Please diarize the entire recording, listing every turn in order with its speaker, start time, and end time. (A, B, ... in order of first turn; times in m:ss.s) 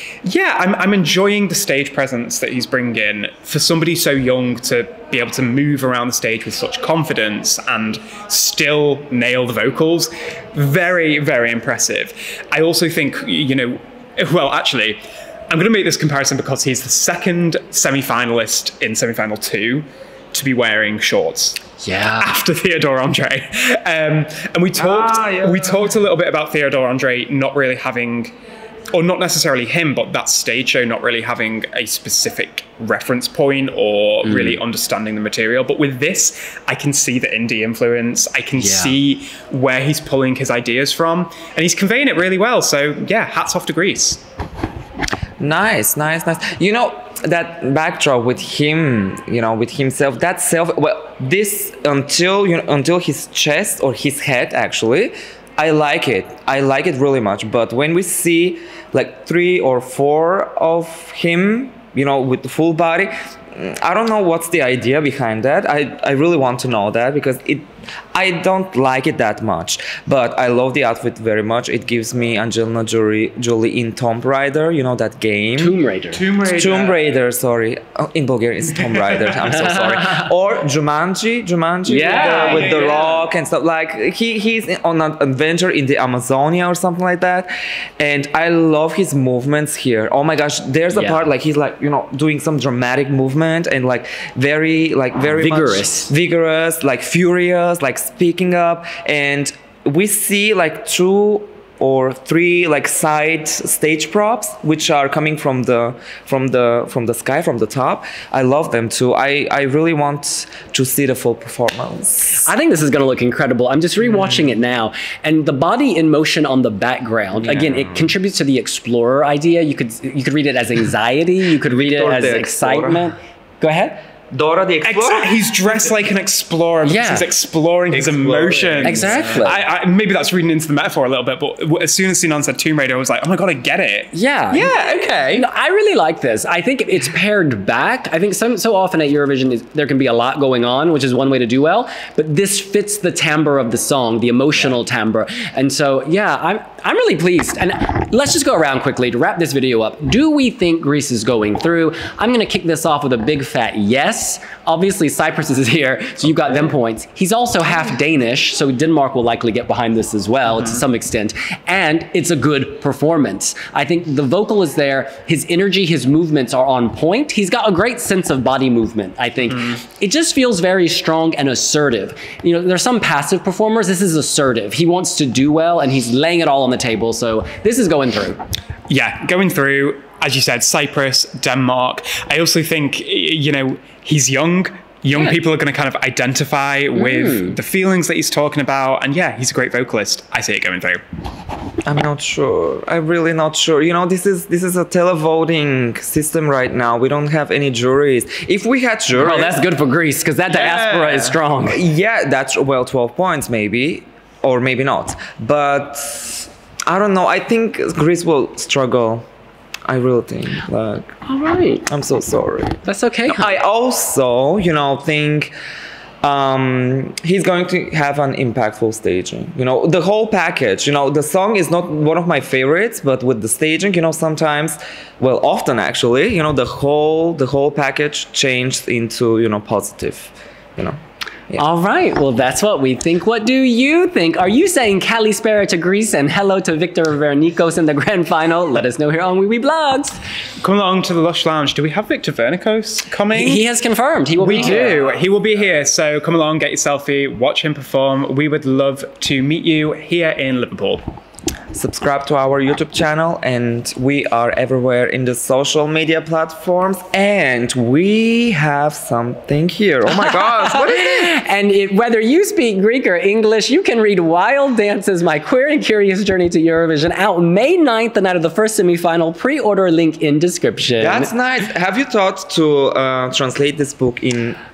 0:00.2-0:21.6 A
0:21.8-0:22.3 B
0:22.2-0:28.3 A
0:24.8-0:25.9 C
0:28.9-0:44.2 A
0:34.2-0:34.6 B
0:38.6-0:39.0 B
0:45.4-1:15.8 C
1:15.6-1:16.3 B
1:16.2-1:17.0 A
1:16.4-1:52.5 C
1:19.6-1:20.2 B
1:21.9-1:22.9 B
1:21.9-1:23.2 A
1:30.9-1:31.2 B
1:35.3-1:36.1 B
1:52.3-2:04.0 B
1:57.4-1:58.1 C
2:01.6-2:03.1 C
2:04.3-2:05.4 C
2:04.8-2:15.4 A
2:06.9-2:07.3 B
2:07.9-2:09.5 C
2:08.8-2:09.6 B
2:14.1-2:14.7 B
2:15.3-2:58.4 B
2:58.9-3:11.0 A
3:06.9-3:07.6 B
3:11.9-3:19.6 C
3:19.1-3:21.8 B
3:20.5-3:29.2 C
3:29.9-3:31.2 C
3:31.2-3:31.8 B
3:31.9-3:35.5 C
3:32.8-3:33.5 B
3:36.2-3:51.0 C
3:51.6-4:00.2 B
4:00.6-4:03.6 A
4:03.3-4:05.1 B
4:04.4-4:11.0 A
4:11.7-4:21.4 C
4:20.2-4:31.3 B
4:31.0-4:34.6 C